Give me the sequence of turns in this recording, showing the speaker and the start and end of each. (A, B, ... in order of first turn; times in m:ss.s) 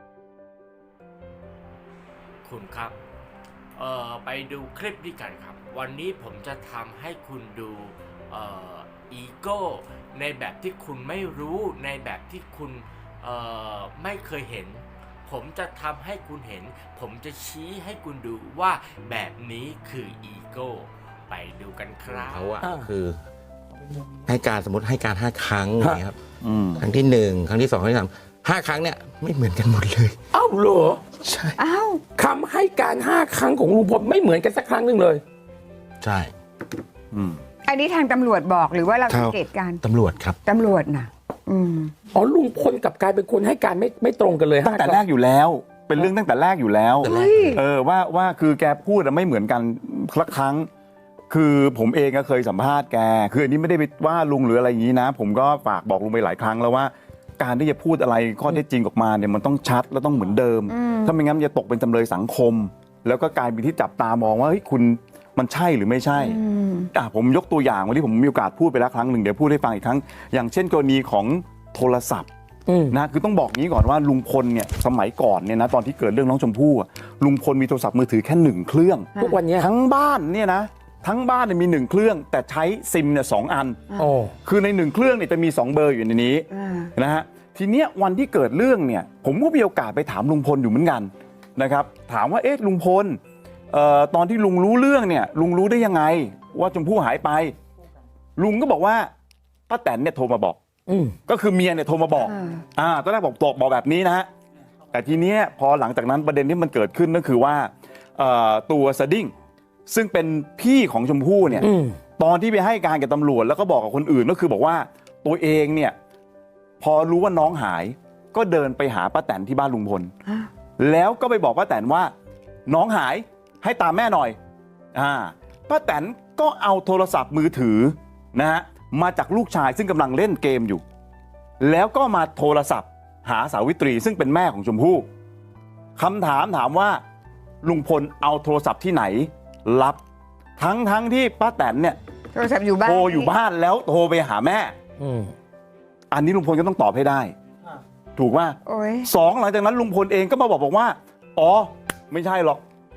0:02.4-0:02.9 A
0:03.8-0:22.7 A
0:22.2-0:23.2 B
0:22.6-0:22.9 C
0:24.2-0:26.2 B
0:26.4-0:26.8 D
0:26.8-0:30.2 B
0:30.3-0:31.2 C
0:31.2-0:31.5 B
0:31.6-0:32.0 E
0:32.1-0:35.2 C
0:36.0-0:36.3 B
0:37.1-0:37.4 D
0:37.6-0:39.8 E
0:39.1-0:40.4 B
0:40.4-0:41.9 E
0:42.1-0:45.0 C
0:44.6-0:50.7 D
0:47.0-0:47.6 E
0:47.1-0:47.5 C
0:51.3-1:06.4 D
1:00.7-1:01.1 E
1:06.2-1:06.9 E
1:06.9-1:12.3 D
1:12.7-1:13.0 C
1:12.9-1:33.2 D
1:19.2-1:19.7 C
1:24.0-1:24.3 C
1:26.5-1:26.9 E
1:33.7-1:37.5 D
1:38.4-1:39.1 D
1:39.7-1:40.6 D
1:40.9-1:41.2 C
1:41.3-1:44.3 D
1:42.2-1:42.6 E
1:44.9-1:49.3 D
1:49.9-1:55.9 D
1:51.6-1:52.0 C
1:56.8-2:00.1 D
2:00.8-2:02.1 D
2:02.7-2:04.4 D
2:04.9-2:10.8 D
2:11.6-2:15.1 D
2:16.0-2:17.0 D
2:17.6-2:20.0 D
2:20.6-2:22.0 D
2:22.3-2:23.3 E
2:22.8-2:24.7 D
2:25.0-2:25.3 C
2:26.1-2:27.3 D
2:28.2-2:32.6 D
2:28.7-2:29.1 E